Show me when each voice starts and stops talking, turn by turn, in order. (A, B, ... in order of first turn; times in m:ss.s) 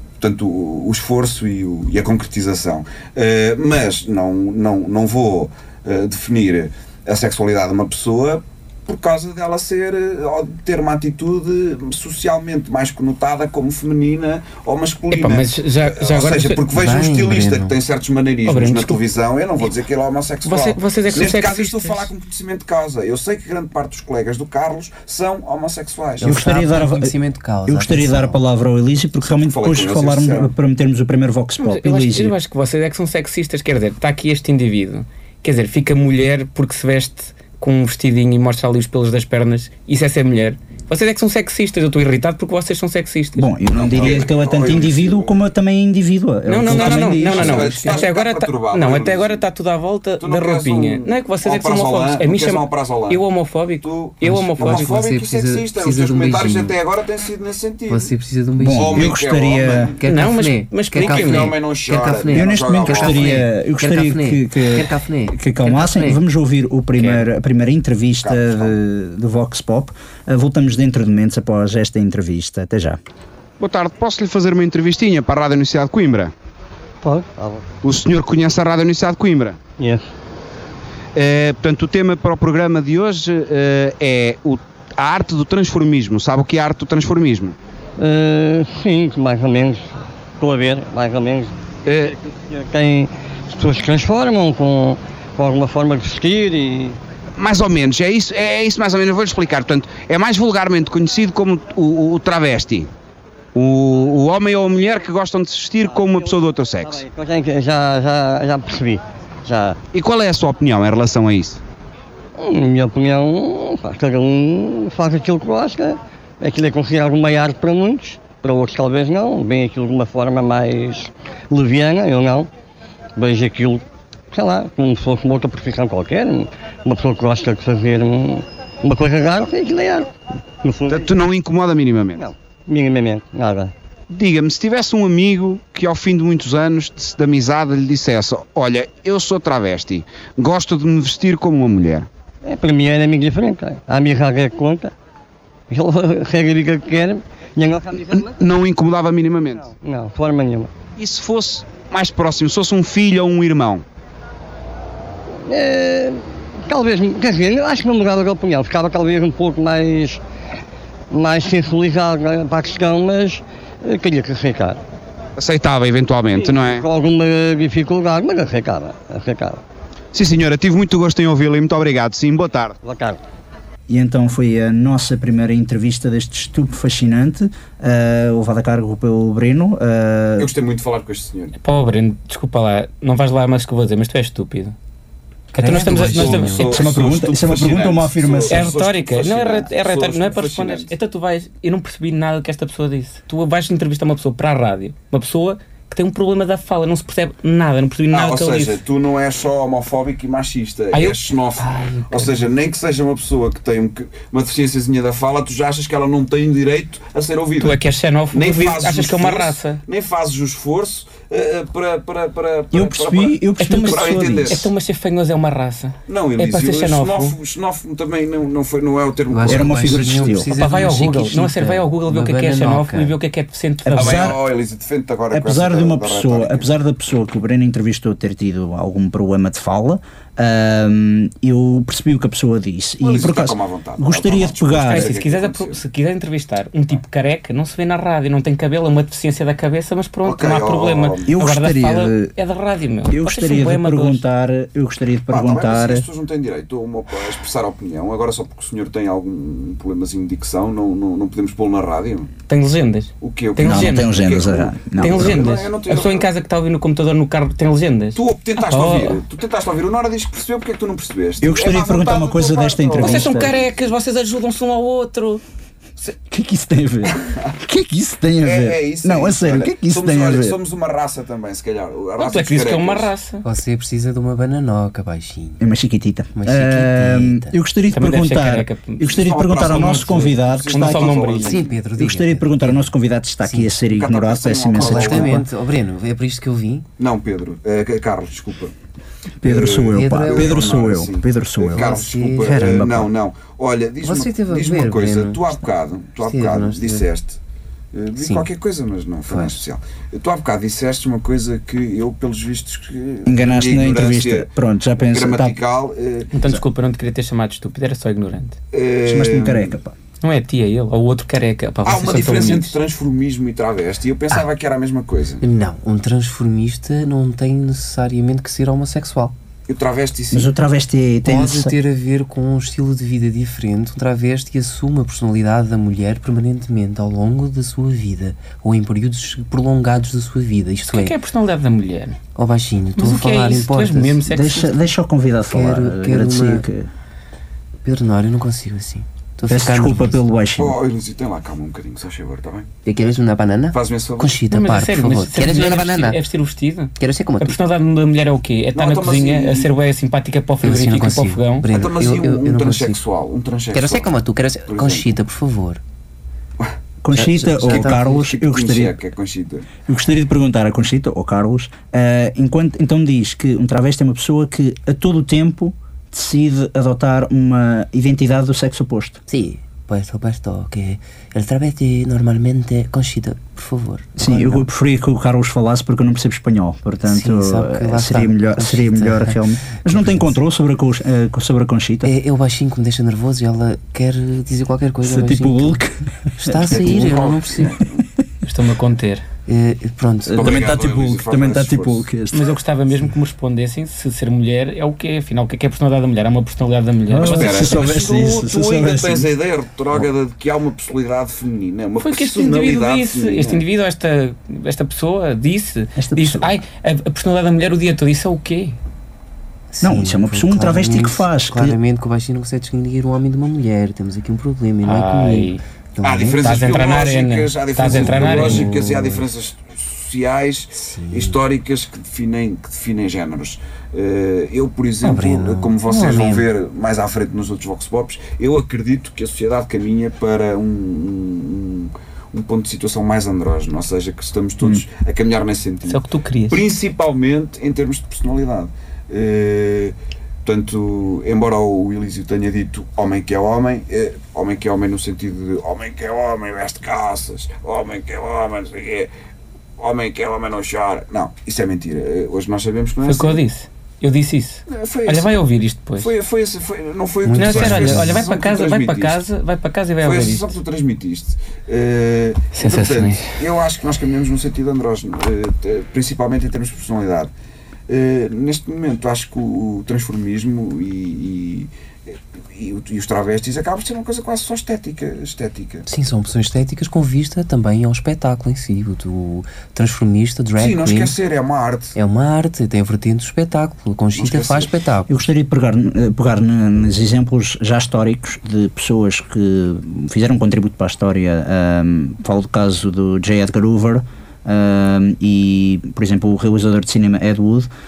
0:00.2-0:26.4 A
0:15.1-0:16.6 B
0:16.7-0:17.8 C
0:18.4-0:19.0 B
0:20.4-0:22.1 B
0:26.2-0:28.4 C
0:26.2-0:27.2 D
0:27.7-0:32.4 D
0:29.3-0:30.5 A
0:31.6-0:43.5 B
0:43.4-0:48.0 D
0:43.7-0:45.3 A
0:46.4-0:54.9 B
0:46.7-0:49.4 A
0:50.2-0:53.2 A
0:53.8-0:58.1 A
0:54.2-0:56.7 C
0:57.9-0:59.1 C
0:58.6-1:00.0 D
0:58.7-1:00.0 A
1:00.0-1:06.2 C
1:00.0-1:01.6 B
1:00.9-1:03.4 A
1:02.3-1:13.0 D
1:08.2-1:08.8 A
1:13.6-1:16.3 E
1:17.0-1:17.6 F
1:17.8-1:19.6 E
1:19.8-1:20.0 F
1:21.1-1:27.6 E
1:28.0-1:37.0 F
1:31.8-1:32.1 E
1:37.4-1:42.9 E
1:43.5-1:47.0 E
1:45.8-1:49.8 F
1:49.9-1:51.6 E
1:52.4-2:02.5 F
2:03.2-2:10.1 F
2:10.6-2:11.1 F
2:10.9-2:12.3 E
2:12.2-2:13.7 F
2:14.1-2:22.1 E
2:22.4-2:24.9 F
2:25.7-2:28.3 F
2:28.2-2:29.7 E
2:29.6-2:30.7 F
2:31.0-2:33.8 E
2:35.5-2:40.2 F
2:41.1-2:44.8 F
2:45.4-2:46.8 E
2:46.3-2:49.6 F
2:50.1-2:52.8 E
2:52.8-2:53.2 F
2:53.9-3:00.5 D
3:00.4-3:01.5 A
3:01.6-3:04.7 B
3:05.5-3:06.7 C
3:05.6-3:06.9 B
3:06.0-3:10.9 A
3:06.5-3:08.7 D
3:08.5-3:18.8 B
3:18.1-3:27.8 A
3:20.9-3:22.3 B
3:27.6-3:29.8 B
3:28.3-3:34.7 A
3:32.7-3:34.7 D
3:33.6-3:37.4 B
3:36.1-3:40.3 A
3:39.3-3:43.1 C
3:39.4-3:40.5 D
3:40.6-3:44.3 B
3:43.8-3:44.4 D
3:44.0-3:46.7 A
3:45.3-3:55.1 D
3:53.0-3:55.8 A
3:54.8-4:04.2 B
4:00.2-4:01.3 A
4:01.3-4:02.3 D
4:03.1-4:06.0 D
4:05.3-4:12.3 A
4:12.5-4:14.1 B
4:13.2-4:16.3 A
4:13.6-4:15.4 D
4:15.0-4:19.2 B
4:18.1-4:23.6 A
4:21.4-4:23.6 D
4:23.0-4:25.4 B
4:26.0-4:30.6 D
4:27.1-4:27.5 A
4:28.4-4:33.1 A
4:32.2-4:33.4 B
4:33.4-4:35.7 C
4:35.6-4:41.3 D
4:36.3-4:37.6 C
4:37.9-4:41.6 B
4:39.1-4:41.7 A
4:41.4-4:42.9 C
4:42.0-4:45.4 D
4:43.4-4:43.7 C
4:43.9-4:45.4 A
4:44.7-4:46.9 C
4:47.0-4:48.7 A
4:49.4-4:53.1 D
4:49.4-4:57.4 A
4:49.9-4:50.7 C
4:51.7-4:53.0 C
4:54.0-4:55.4 C
4:56.2-4:57.1 C
4:57.9-5:04.5 A
4:58.2-4:58.5 C
4:59.3-4:59.5 C
5:03.2-5:05.6 D
5:05.0-5:06.3 A
5:06.3-5:08.6 B
5:08.7-5:09.7 A
5:09.0-5:09.9 D
5:10.2-5:12.8 B
5:11.8-5:15.4 A
5:15.4-5:19.3 C
5:19.7-5:20.5 A
5:20.3-5:21.8 D
5:21.2-5:31.1 C
5:30.9-5:32.2 B
5:32.3-5:34.2 C
5:33.0-5:34.8 B
5:34.3-5:36.9 D
5:35.5-5:36.6 C
5:37.8-5:40.2 C
5:39.5-5:40.8 D
5:40.6-5:42.7 A
5:42.8-5:46.2 C
5:43.7-5:44.4 A
5:44.5-5:51.7 B
5:47.0-5:47.6 C
5:48.7-5:49.7 A
5:50.6-5:53.0 C
5:51.7-5:55.1 A
5:53.7-5:55.8 C
5:57.0-5:59.0 D
5:57.1-5:58.0 C
5:57.6-5:59.7 A
5:59.8-6:09.2 D
6:09.3-6:14.7 C
6:14.2-6:22.1 D
6:17.0-6:20.3 C
6:22.0-6:25.8 C
6:25.0-6:27.8 D
6:26.4-6:27.8 C
6:26.6-6:27.9 A
6:28.4-6:29.2 B
6:29.5-6:30.6 C
6:30.3-6:32.6 D
6:30.3-6:32.0 A
6:32.3-6:37.9 B
6:37.1-6:39.3 D
6:37.2-6:43.6 A
6:42.0-6:48.8 B
6:46.0-6:46.6 D
6:49.7-6:56.6 C
6:49.8-6:51.8 D
6:54.8-6:55.6 B
6:56.0-7:29.1 A
6:56.4-6:58.7 B
6:57.8-6:59.2 C
7:00.8-7:01.4 C
7:05.0-7:06.5 C
7:15.9-7:16.6 B
7:29.8-7:33.4 A
7:33.0-7:36.1 B
7:34.7-7:35.4 A
7:36.0-7:39.2 A
7:37.2-7:38.3 C
7:37.4-7:40.6 B
7:40.0-7:47.3 A
7:42.5-7:43.4 B
7:47.9-7:55.9 A
7:55.9-8:01.1 C
8:00.6-8:02.0 A
8:01.9-8:05.2 C
8:04.1-8:04.7 A
8:05.1-8:17.7 D